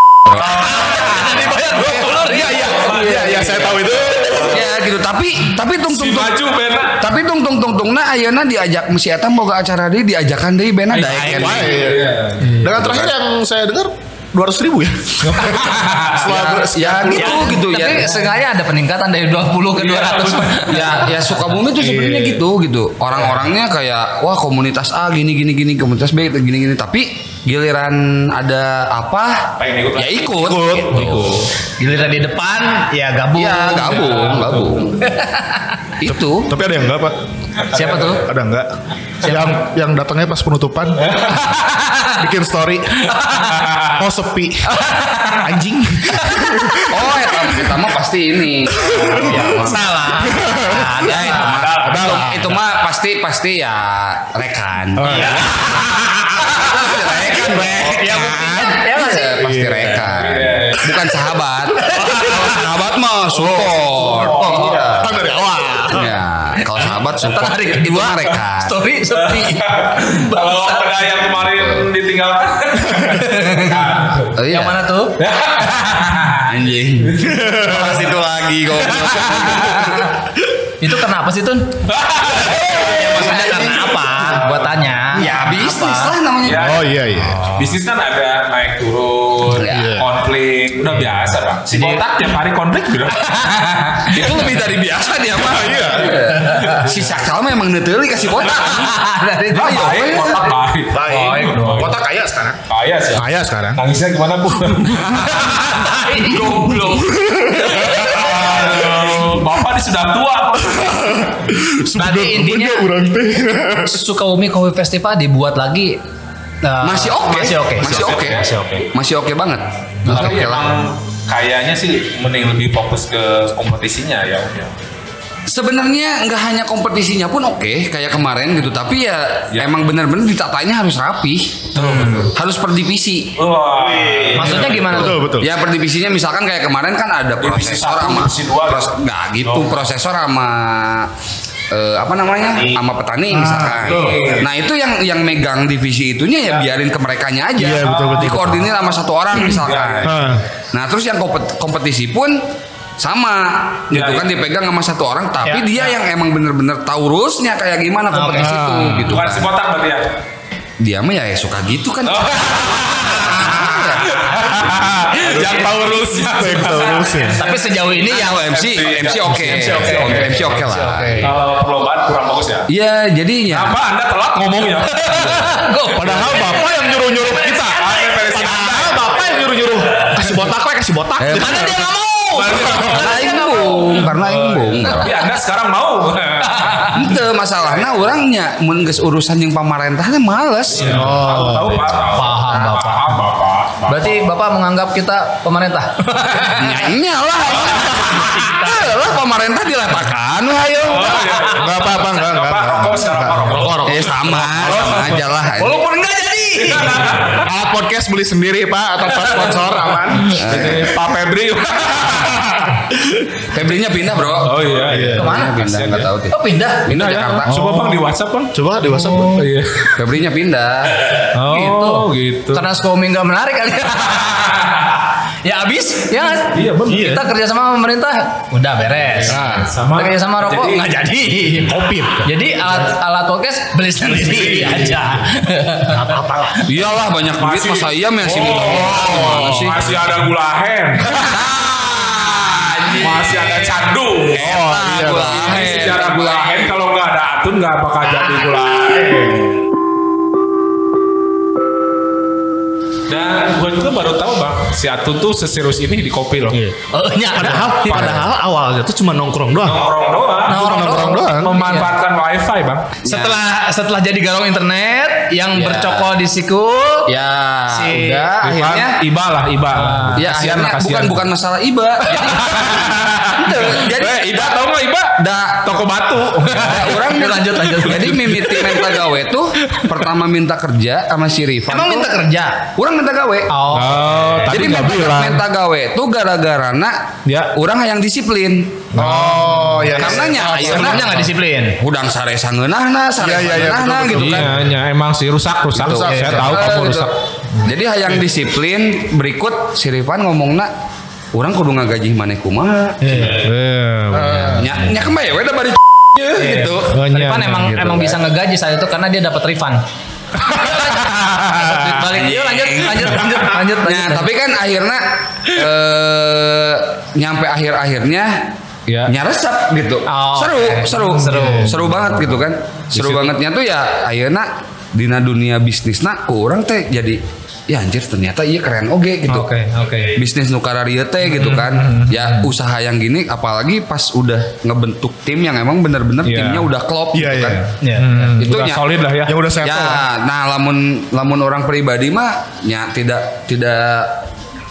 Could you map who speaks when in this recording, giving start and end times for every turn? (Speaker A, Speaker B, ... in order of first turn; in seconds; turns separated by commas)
Speaker A: 0.2-0.6, Speaker B: 0.7-3.3, Speaker C: 0.7-4.5, Speaker D: 1.1-2.0, Speaker D: 2.8-4.6, Speaker A: 4.4-6.4, Speaker C: 5.9-7.0, Speaker A: 7.0-11.8, Speaker C: 10.9-13.1, Speaker D: 11.2-17.6, Speaker C: 15.2-16.3, Speaker A: 16.2-18.2, Speaker B: 17.1-21.1, Speaker C: 19.8-22.4, Speaker A: 20.7-31.4, Speaker C: 23.1-23.4, Speaker C: 29.6-31.5, Speaker D: 30.4-31.2, Speaker B: 31.8-34.2, Speaker A: 33.3-35.0, Speaker C: 33.9-34.9, Speaker B: 35.0-35.8, Speaker A: 36.0-36.5, Speaker D: 36.5-37.1, Speaker C: 37.6-38.2, Speaker B: 37.7-38.2, Speaker D: 37.8-38.7, Speaker D: 39.2-41.2, Speaker B: 39.2-39.5, Speaker C: 41.0-41.5, Speaker B: 41.9-42.1, Speaker D: 42.2-43.1, Speaker B: 43.1-43.8, Speaker C: 43.3-44.0, Speaker D: 43.9-44.7, Speaker B: 44.6-45.4, Speaker D: 45.3-47.7, Speaker A: 46.9-49.9, Speaker D: 48.8-49.5, Speaker B: 49.1-52.3, Speaker D: 50.1-51.1, Speaker A: 50.8-55.7, Speaker D: 51.7-52.6, Speaker D: 55.0-56.8, Speaker B: 55.0-55.5, Speaker C: 55.1-55.8, Speaker A: 56.5-65.1, Speaker B: 57.5-59.8, Speaker C: 59.8-61.0, Speaker B: 61.8-62.5, Speaker D: 63.3-66.2, Speaker C: 64.0-64.9, Speaker A: 65.9-68.8, Speaker B: 66.8-71.2, Speaker C: 69.2-74.3, Speaker A: 71.5-71.8, Speaker B: 73.0-75.2, Speaker A: 74.3-74.8, Speaker C: 75.2-76.5, Speaker A: 76.4-80.1, Speaker C: 77.0-77.6, Speaker D: 77.3-78.1, Speaker C: 78.8-79.9, Speaker B: 80.8-81.7, Speaker C: 81.9-83.7, Speaker B: 82.6-86.1, Speaker A: 85.1-86.8, Speaker C: 86.4-93.4, Speaker D: 86.5-87.7, Speaker A: 89.5-89.9, Speaker D: 89.6-90.1, Speaker A: 91.7-92.2, Speaker B: 93.2-94.2, Speaker A: 94.1-99.0, Speaker C: 94.1-94.6, Speaker D: 95.4-96.5, Speaker B: 96.5-96.8, Speaker B: 98.7-100.2, Speaker C: 99.5-101.9, Speaker A: 99.5-100.5, Speaker D: 100.9-102.6, Speaker B: 101.0-101.9, Speaker C: 102.7-105.5, Speaker D: 103.1-103.8, Speaker D: 104.7-105.6, Speaker A: 105.3-108.2, Speaker B: 105.7-106.4, Speaker D: 106.3-109.1, Speaker C: 107.8-111.3, Speaker D: 110.7-114.0, Speaker B: 112.0-112.9, Speaker B: 113.8-116.0, Speaker B: 116.6-118.8, Speaker A: 116.8-120.8, Speaker C: 117.8-118.9, Speaker B: 120.0-120.4, Speaker C: 120.0-124.7, Speaker A: 125.5-131.7, Speaker C: 131.7-132.3, Speaker B: 131.8-132.3, Speaker A: 132.3-133.3, Speaker C: 133.4-135.2, Speaker D: 133.8-135.5, Speaker B: 134.3-135.2, Speaker A: 135.4-141.1, Speaker C: 137.4-139.8, Speaker A: 141.7-150.1, Speaker D: 143.3-144.2, Speaker C: 143.5-144.5, Speaker D: 147.6-148.7, Speaker C: 147.8-148.4, Speaker C: 149.4-150.2, Speaker D: 150.0-150.4, Speaker A: 150.7-152.4, Speaker A: 153.0-159.5, Speaker C: 153.9-154.2, Speaker B: 155.4-155.9, Speaker B: 158.1-158.6, Speaker D: 158.4-159.1, Speaker C: 158.9-160.1, Speaker A: 160.8-164.4, Speaker C: 162.0-167.6, Speaker B: 163.4-164.1, Speaker D: 165.2-167.4, Speaker B: 165.4-165.7, Speaker B: 167.2-168.5, Speaker A: 167.9-171.3, Speaker C: 168.1-170.6, Speaker B: 169.4-171.3, Speaker C: 171.2-172.7, Speaker A: 172.7-173.7, Speaker C: 173.5-176.7, Speaker B: 175.1-177.9, Speaker D: 176.0-181.8, Speaker C: 177.3-179.4, Speaker A: 181.2-181.7, Speaker B: 181.3-184.0, Speaker C: 182.3-187.0, Speaker A: 182.7-185.2, Speaker B: 186.4-187.0, Speaker A: 186.9-191.1, Speaker C: 190.7-194.2, Speaker D: 190.9-192.0, Speaker B: 192.1-193.2, Speaker B: 193.9-196.9, Speaker A: 196.6-201.3, Speaker B: 197.7-198.9, Speaker C: 200.8-205.2, Speaker D: 201.4-204.4, Speaker A: 203.8-205.8, Speaker B: 205.6-207.3, Speaker C: 206.6-207.5, Speaker D: 207.4-210.8, Speaker C: 209.3-212.9, Speaker A: 210.4-210.9, Speaker A: 213.5-216.3, Speaker C: 214.4-216.1, Speaker D: 214.8-215.3, Speaker B: 215.2-215.6, Speaker B: 216.3-216.9, Speaker A: 216.9-217.5, Speaker C: 216.9-219.9, Speaker D: 217.4-219.5, Speaker A: 219.9-221.0, Speaker C: 221.3-222.7, Speaker B: 221.4-236.3, Speaker C: 226.5-227.2, Speaker D: 226.9-227.3, Speaker C: 229.1-230.9, Speaker D: 229.3-229.7, Speaker D: 231.5-232.3, Speaker D: 234.0-235.0, Speaker D: 235.9-236.6, Speaker A: 236.6-240.1, Speaker C: 237.3-241.4, Speaker A: 241.2-243.6, Speaker C: 242.9-249.1, Speaker D: 244.3-245.8, Speaker A: 244.3-246.6, Speaker D: 248.9-249.6, Speaker C: 253.1-256.6, Speaker D: 256.5-256.8, Speaker B: 256.9-258.2, Speaker D: 257.3-259.8, Speaker C: 257.6-258.3, Speaker C: 259.6-260.7, Speaker D: 260.5-261.6, Speaker B: 260.5-261.9, Speaker C: 261.4-262.9, Speaker A: 263.0-263.4, Speaker B: 263.0-267.1, Speaker A: 265.5-266.1, Speaker A: 267.1-269.0, Speaker B: 267.7-268.3, Speaker C: 268.4-271.3, Speaker B: 269.7-270.2, Speaker A: 270.1-274.6, Speaker C: 272.0-279.0, Speaker A: 275.2-275.8, Speaker A: 276.5-282.1, Speaker B: 277.1-278.4, Speaker C: 279.7-280.0, Speaker B: 281.7-282.7, Speaker A: 282.8-283.5, Speaker B: 283.5-284.1, Speaker C: 283.7-285.4, Speaker A: 284.5-288.9, Speaker C: 287.2-287.5, Speaker C: 288.9-290.1, Speaker D: 288.9-291.2, Speaker A: 289.9-291.2, Speaker B: 290.4-291.8, Speaker A: 291.8-294.5, Speaker D: 293.2-294.6, Speaker C: 294.1-297.7, Speaker A: 295.7-297.1, Speaker D: 295.8-296.6, Speaker A: 297.6-300.7, Speaker A: 301.3-303.4, Speaker D: 303.0-303.5, Speaker C: 303.4-304.9, Speaker A: 304.4-307.0, Speaker C: 306.4-308.1, Speaker B: 307.1-309.8, Speaker B: 310.4-314.3, Speaker C: 310.4-311.9, Speaker A: 312.1-318.4, Speaker C: 318.9-319.1, Speaker A: 319.1-329.5, Speaker B: 320.1-321.8, Speaker C: 321.0-322.2, Speaker C: 322.9-323.3, Speaker B: 329.3-330.1, Speaker C: 329.4-330.1, Speaker A: 330.1-337.6, Speaker C: 331.2-332.5, Speaker C: 336.2-336.7, Speaker D: 337.1-337.6, Speaker B: 337.8-338.1, Speaker C: 337.8-339.4, Speaker A: 338.4-338.8, Speaker D: 339.2-340.0, Speaker A: 339.6-344.2